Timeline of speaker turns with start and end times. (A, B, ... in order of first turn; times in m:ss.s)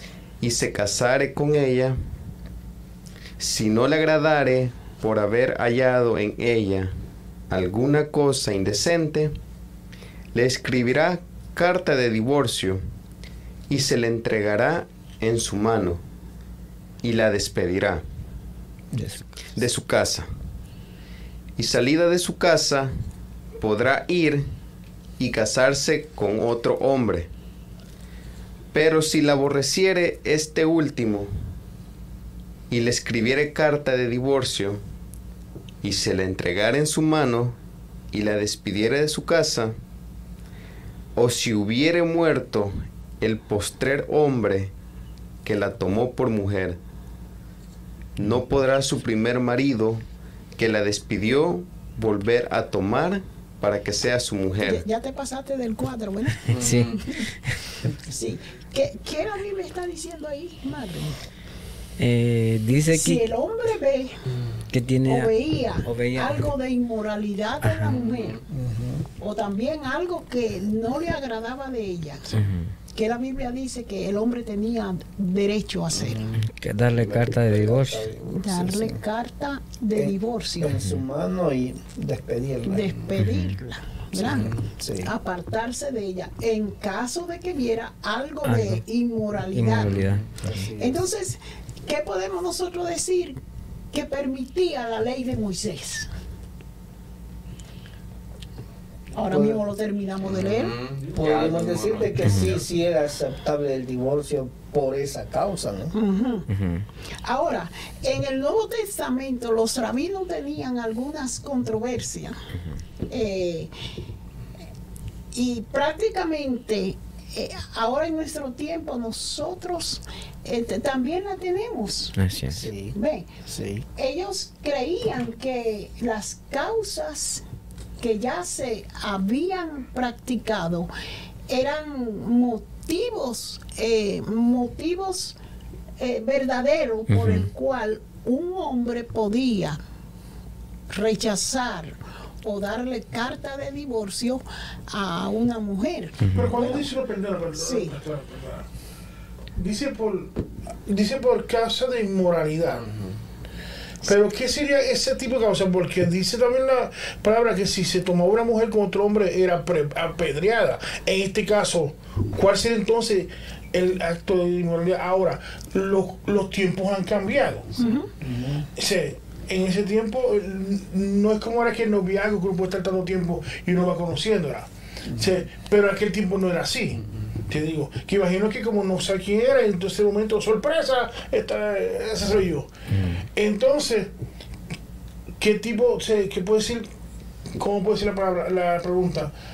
0:00.4-0:02.0 A
0:03.4-0:06.9 A
0:07.5-0:09.4 A
0:10.3-0:12.8 A
0:13.7-0:16.0 A
0:17.0-0:18.0 A
0:18.9-0:19.2 B
0:19.6-0:20.3 A
0:21.6-0:22.9 A
0:23.6-0:24.5 A
0:25.2-0:27.3 A
0:28.7-0:31.3 A
0:32.7-0:34.8 A
0:35.8-0:37.6 A
0:38.1-0:39.8 A
0:41.1-0:44.7 A
0:45.4-0:46.8 A
0:48.2-0:50.0 A
0:50.6-0:54.8 A
0:54.6-0:56.8 C
0:56.4-0:57.0 D
0:56.5-0:57.0 E
0:58.1-1:01.2 C
1:02.0-1:03.2 D
1:02.9-1:04.2 C
1:04.3-1:04.6 E
1:04.7-1:06.5 D
1:05.0-1:08.4 C
1:07.6-1:07.9 D
1:07.9-1:08.4 E
1:08.5-1:09.1 B
1:09.2-1:12.2 C
1:12.3-1:12.7 D
1:12.9-1:16.2 C
1:16.0-1:16.3 B
1:16.4-1:18.1 D
1:17.1-1:19.0 B
1:18.3-1:20.8 C
1:19.9-1:22.9 B
1:22.6-1:29.9 C
1:23.2-1:23.6 D
1:24.2-1:24.6 E
1:24.8-1:25.1 B
1:28.4-1:28.8 D
1:29.5-1:30.2 D
1:29.9-1:30.3 E
1:30.4-1:31.0 B
1:30.8-1:33.4 C
1:33.9-1:36.1 C
1:39.1-1:40.8 C
1:39.3-1:39.6 B
1:40.2-1:42.6 E
1:41.0-1:45.9 B
1:42.2-1:42.6 D
1:45.9-1:46.5 C
1:46.5-1:46.8 D
1:47.2-1:52.4 C
1:53.1-1:53.7 C
1:55.3-2:02.1 C
2:02.2-2:02.7 D
2:02.5-2:03.8 B
2:02.9-2:03.3 C
2:04.0-2:07.4 C
2:08.0-2:10.9 C
2:11.5-2:15.4 C
2:16.0-2:19.8 C
2:17.1-2:17.5 D
2:20.9-2:26.9 C
2:26.2-2:26.6 D
2:26.3-2:28.6 F
2:27.5-2:27.9 C
2:29.6-2:30.3 F
2:30.8-2:32.8 F
2:32.6-2:33.2 E
2:34.0-2:47.7 F
2:47.8-2:48.1 C
2:48.2-2:48.7 B
2:48.8-3:02.7 F
2:55.1-2:55.4 B
3:02.9-3:03.2 D
3:03.3-3:04.1 F
3:05.4-3:06.9 F
3:07.6-3:09.3 F